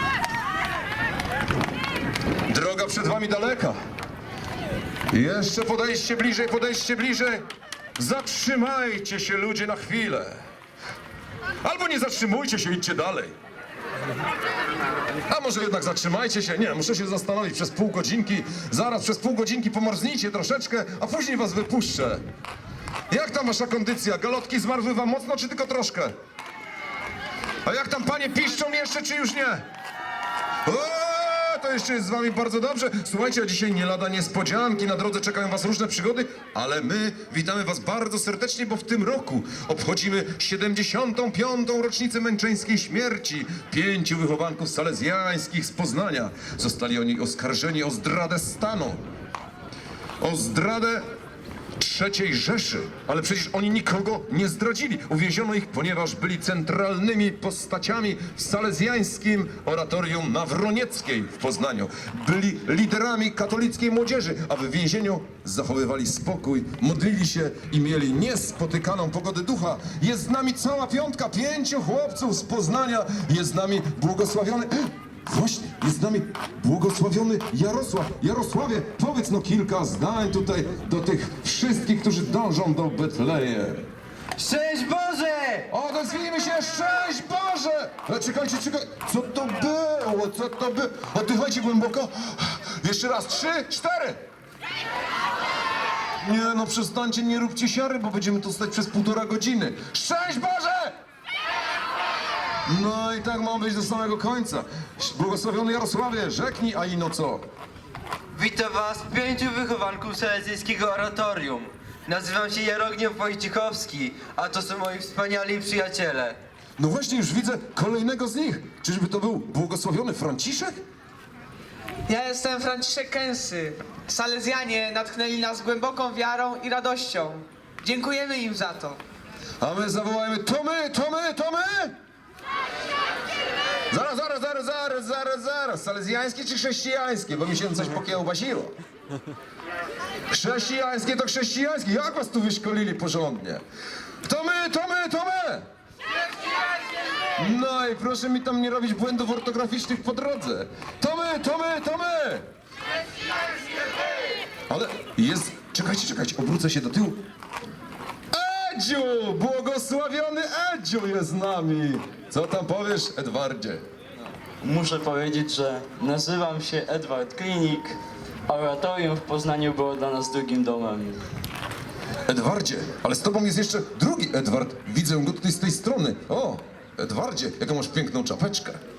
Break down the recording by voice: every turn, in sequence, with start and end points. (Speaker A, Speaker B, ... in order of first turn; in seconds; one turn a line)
Speaker A: 2.5-3.8
Speaker A: 5.1-7.4
Speaker A: 8.0-10.4
Speaker A: 11.6-13.3
Speaker A: 15.3-22.2
Speaker A: 23.1-26.1
Speaker A: 27.6-29.6
Speaker A: 30.6-49.0
Speaker A: 50.2-51.1
Speaker A: 51.8-83.9
Speaker B: 84.4-85.7
Speaker A: 85.7-94.2
Speaker A: 96.2-100.9
Speaker A: 102.7-107.4
Speaker B: 108.3-116.4
Speaker A: 116.8-120.8
Speaker C: 122.1-129.0
Speaker A: 129.6-131.9
Speaker A: 133.9-138.7
Speaker A: 140.3-143.6
Speaker A: 144.2-145.7
Speaker A: 147.4-152.4
Speaker A: 154.7-157.2
Speaker A: 158.3-163.8
Speaker D: 164.6-168.0
Speaker D: 168.5-171.2
Speaker A: 172.3-178.8